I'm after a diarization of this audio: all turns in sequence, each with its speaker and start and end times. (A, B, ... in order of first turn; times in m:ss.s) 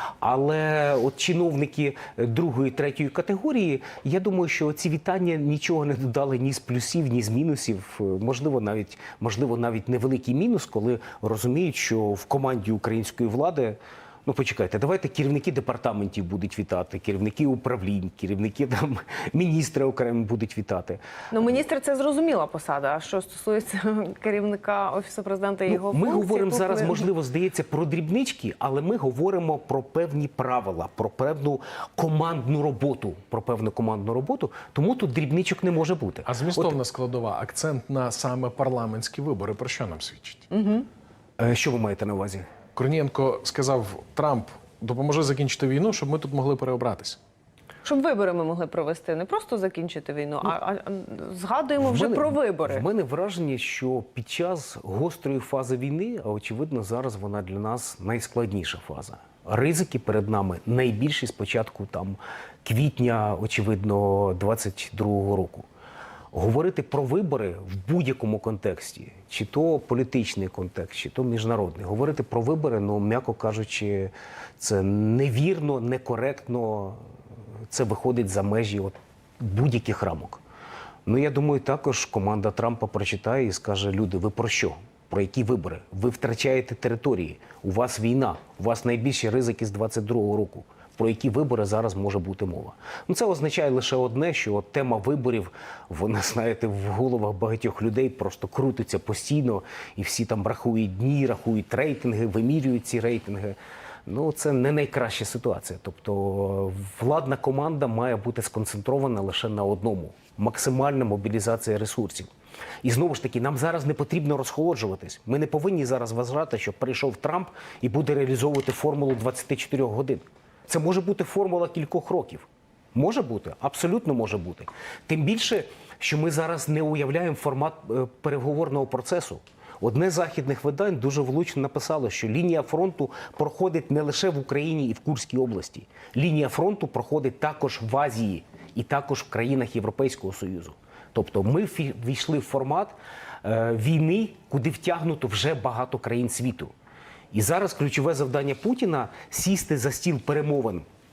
0:00.2-0:21.6 A
0:21.3-0:27.0 B
0:25.7-0:36.8 A
0:36.2-0:40.5 C
0:40.5-0:40.8 B
0:41.4-0:42.4 A
0:42.7-0:47.2 C
0:47.8-0:52.8 B
0:51.8-1:05.7 A
1:06.3-1:17.0 A
1:17.7-1:20.4 A
1:21.0-1:52.3 A
1:52.8-2:26.7 A
2:27.3-2:30.8 A